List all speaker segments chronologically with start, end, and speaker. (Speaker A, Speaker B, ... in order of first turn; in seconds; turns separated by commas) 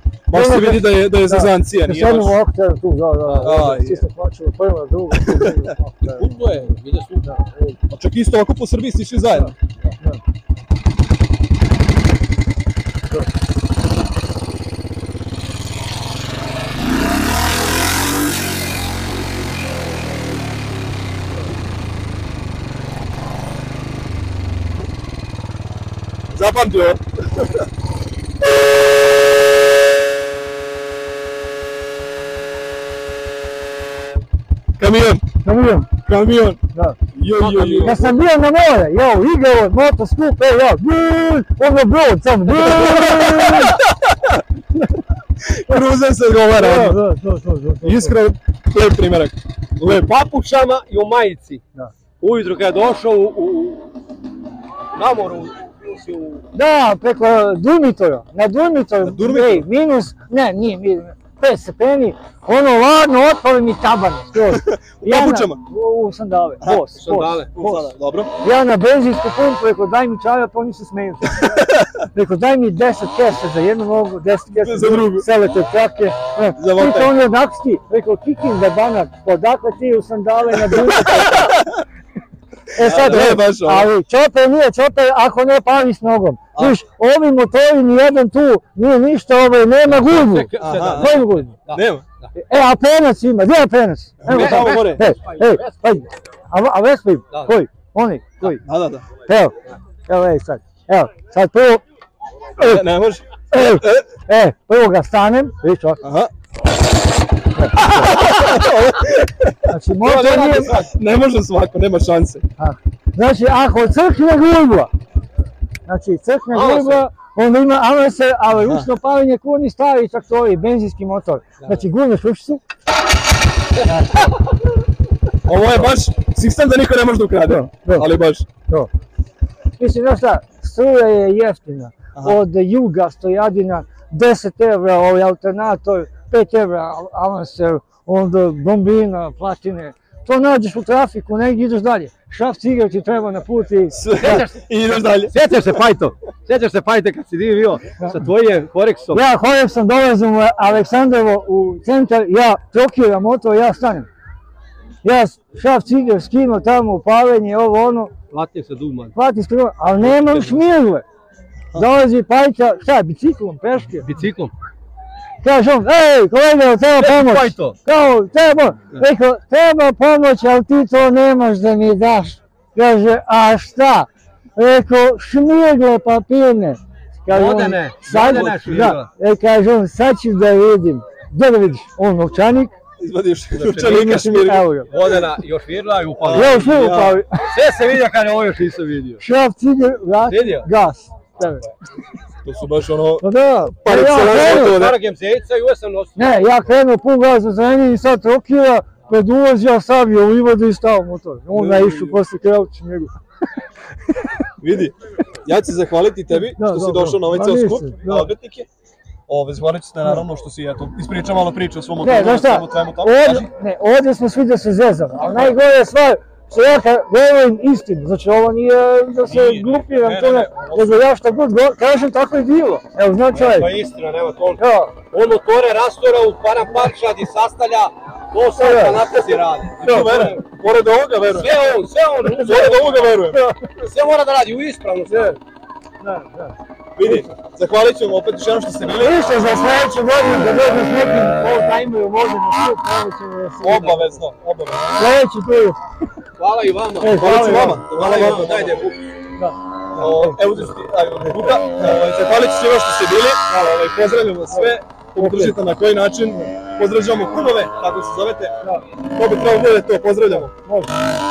Speaker A: 0.3-2.4, Speaker B: 0.3-6.3, Speaker C: 3.2-3.6, Speaker A: 3.4-4.0, Speaker C: 6.1-7.8, Speaker A: 7.9-9.5, Speaker B: 9.3-10.2, Speaker A: 26.3-27.0, Speaker A: 34.8-35.3, Speaker B: 35.4-36.0, Speaker A: 36.0-36.6, Speaker B: 36.7-37.0, Speaker A: 37.1-38.1, Speaker C: 37.3-38.2, Speaker B: 37.8-43.6, Speaker A: 42.9-43.8, Speaker A: 45.4-47.0, Speaker B: 46.6-48.2, Speaker A: 47.8-49.4, Speaker C: 49.8-51.6, Speaker C: 52.2-53.9, Speaker C: 54.9-56.4, Speaker B: 56.5-71.6, Speaker A: 59.0-59.7, Speaker A: 64.6-65.6, Speaker A: 66.6-68.3, Speaker C: 67.0-67.5, Speaker B: 72.1-81.5, Speaker A: 74.6-75.3, Speaker A: 76.6-77.1, Speaker A: 81.0-81.8, Speaker B: 82.8-91.6, Speaker A: 82.8-83.9, Speaker C: 89.9-92.3, Speaker A: 90.6-92.0, Speaker B: 92.3-98.6, Speaker A: 94.2-95.0, Speaker C: 94.2-96.1, Speaker A: 98.7-99.1, Speaker B: 99.2-99.5, Speaker B: 100.1-101.8, Speaker B: 102.6-102.8, Speaker A: 102.6-103.5, Speaker B: 103.5-106.0, Speaker A: 106.0-106.3, Speaker B: 107.5-108.2, Speaker A: 107.8-112.4, Speaker B: 109.7-110.8, Speaker C: 110.0-110.8, Speaker B: 112.6-114.9, Speaker B: 115.8-122.6, Speaker C: 116.5-117.0, Speaker B: 123.8-124.3, Speaker A: 125.5-128.5, Speaker B: 127.4-128.1, Speaker B: 128.6-128.9, Speaker B: 129.8-144.4, Speaker A: 143.9-145.4, Speaker C: 144.2-149.2, Speaker B: 149.1-154.1, Speaker B: 155.0-158.1, Speaker C: 158.3-159.1, Speaker B: 159.1-161.1, Speaker A: 160.0-160.6, Speaker B: 161.7-164.2, Speaker C: 163.9-164.5, Speaker B: 165.4-182.8, Speaker C: 167.0-167.8, Speaker C: 177.3-179.1, Speaker A: 183.0-185.3, Speaker C: 183.5-184.1, Speaker B: 183.9-184.9, Speaker C: 184.9-186.7, Speaker A: 186.2-187.2, Speaker B: 186.3-187.5, Speaker C: 187.4-189.2, Speaker B: 189.2-191.6, Speaker C: 190.2-190.7, Speaker C: 191.4-191.7, Speaker A: 192.4-193.2, Speaker B: 193.2-194.8, Speaker A: 193.8-195.0, Speaker C: 193.9-196.2, Speaker B: 196.2-203.1, Speaker A: 201.5-202.2, Speaker A: 204.6-204.9, Speaker A: 205.4-208.7, Speaker B: 206.3-208.3, Speaker A: 209.3-213.5, Speaker B: 212.0-223.7, Speaker A: 219.2-221.1, Speaker C: 223.3-230.4, Speaker B: 224.6-225.0, Speaker B: 228.6-229.1, Speaker A: 229.8-231.5, Speaker C: 231.3-235.4, Speaker A: 232.4-233.4, Speaker B: 235.1-235.4, Speaker B: 236.0-236.6, Speaker A: 237.0-239.4, Speaker B: 239.0-244.1, Speaker A: 243.6-244.9, Speaker B: 244.9-245.8, Speaker C: 246.4-249.0, Speaker B: 247.0-247.9, Speaker A: 247.2-248.9, Speaker B: 249.4-250.4, Speaker A: 249.9-258.6, Speaker B: 254.5-255.5, Speaker A: 259.1-260.6, Speaker B: 260.3-260.9